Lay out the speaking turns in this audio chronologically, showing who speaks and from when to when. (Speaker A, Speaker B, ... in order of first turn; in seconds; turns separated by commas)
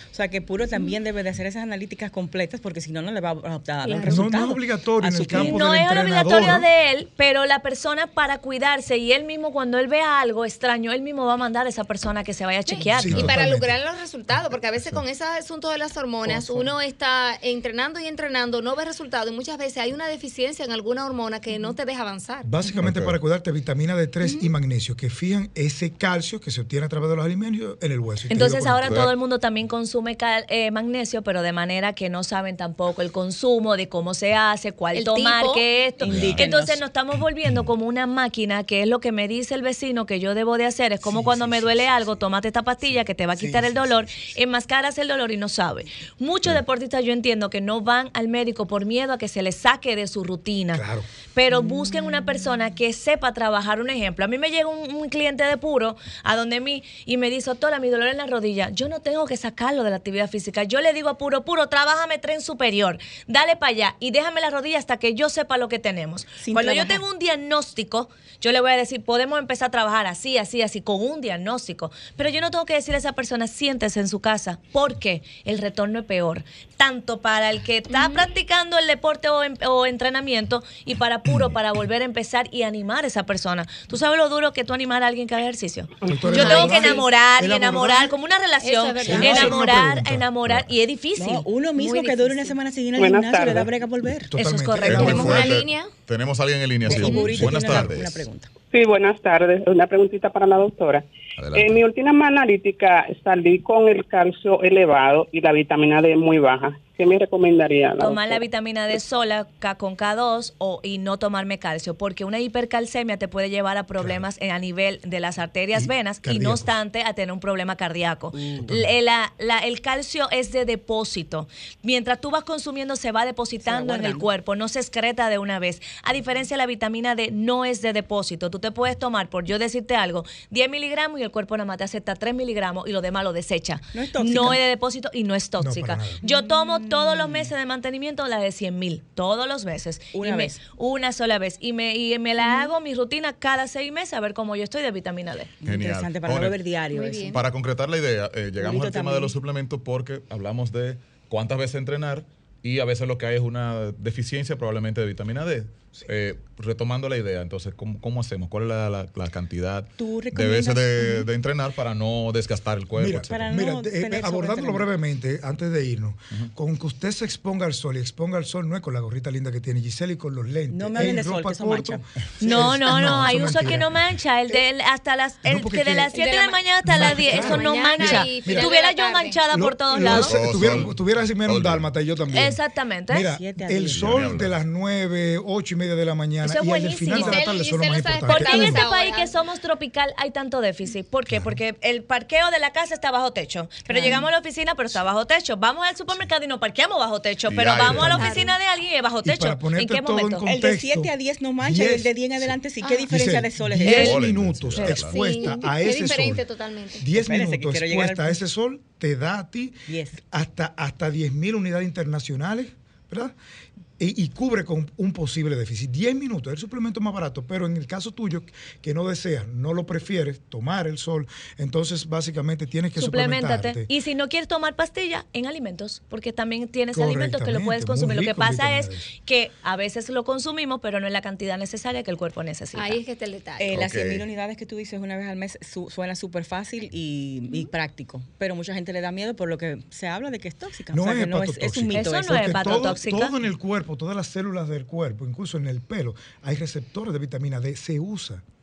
Speaker A: 0.1-5.6, Speaker B: 3.8-4.5, Speaker C: 4.0-6.7, Speaker D: 5.3-13.4, Speaker B: 12.7-22.5, Speaker C: 13.0-13.7, Speaker C: 16.2-16.6, Speaker C: 22.4-29.0, Speaker E: 22.8-23.1, Speaker B: 24.2-24.5, Speaker D: 28.3-50.8, Speaker B: 34.9-35.6, Speaker A: 36.0-36.8, Speaker E: 36.0-36.4, Speaker C: 41.0-42.2, Speaker C: 42.9-44.4, Speaker C: 50.7-51.1, Speaker D: 51.3-91.5, Speaker A: 66.4-67.0, Speaker B: 77.9-78.2, Speaker C: 86.0-88.2, Speaker B: 86.2-87.0, Speaker B: 88.6-89.6, Speaker C: 89.0-90.3, Speaker A: 89.1-89.6, Speaker A: 91.2-94.3, Speaker B: 91.8-92.6, Speaker F: 93.0-93.7, Speaker C: 94.2-95.5, Speaker D: 94.3-95.5, Speaker E: 94.8-98.2, Speaker B: 94.9-95.9, Speaker A: 96.8-98.5, Speaker C: 96.9-97.9, Speaker B: 97.0-97.4, Speaker F: 98.7-108.4, Speaker E: 101.4-101.8, Speaker D: 108.0-145.5, Speaker C: 114.0-114.2, Speaker C: 115.7-116.7, Speaker A: 118.4-118.7, Speaker C: 118.6-118.9, Speaker A: 123.6-124.3, Speaker A: 133.9-134.6, Speaker C: 135.6-136.2, Speaker A: 136.2-137.5, Speaker A: 140.1-140.6, Speaker B: 142.4-142.7, Speaker A: 145.6-147.4, Speaker E: 145.6-146.6, Speaker B: 146.9-147.4, Speaker E: 147.3-163.3, Speaker A: 148.6-149.3, Speaker A: 160.0-161.3, Speaker C: 162.9-174.6, Speaker A: 163.3-164.9, Speaker A: 170.7-172.1, Speaker D: 172.4-180.4, Speaker C: 175.4-176.1, Speaker B: 176.1-179.4, Speaker C: 176.8-178.7, Speaker C: 179.5-188.8, Speaker E: 180.1-181.9, Speaker D: 182.3-183.3, Speaker A: 183.2-184.4, Speaker E: 183.8-184.6, Speaker D: 186.4-187.5, Speaker B: 187.1-189.3, Speaker D: 188.2-200.4, Speaker C: 191.3-191.6, Speaker A: 193.9-194.3, Speaker E: 197.5-198.4, Speaker C: 197.9-198.3, Speaker B: 197.9-198.5, Speaker C: 199.2-202.5, Speaker A: 200.4-204.2, Speaker B: 202.8-203.1, Speaker C: 203.1-206.4, Speaker D: 203.8-204.1, Speaker E: 203.8-205.2, Speaker B: 204.8-207.0, Speaker C: 207.0-213.3, Speaker A: 207.2-208.4, Speaker A: 209.9-210.2, Speaker C: 214.0-223.9, Speaker D: 223.0-233.0, Speaker C: 226.9-229.1, Speaker B: 232.7-233.8, Speaker A: 233.6-242.9, Speaker E: 233.7-234.2, Speaker C: 240.9-248.4, Speaker D: 241.9-243.3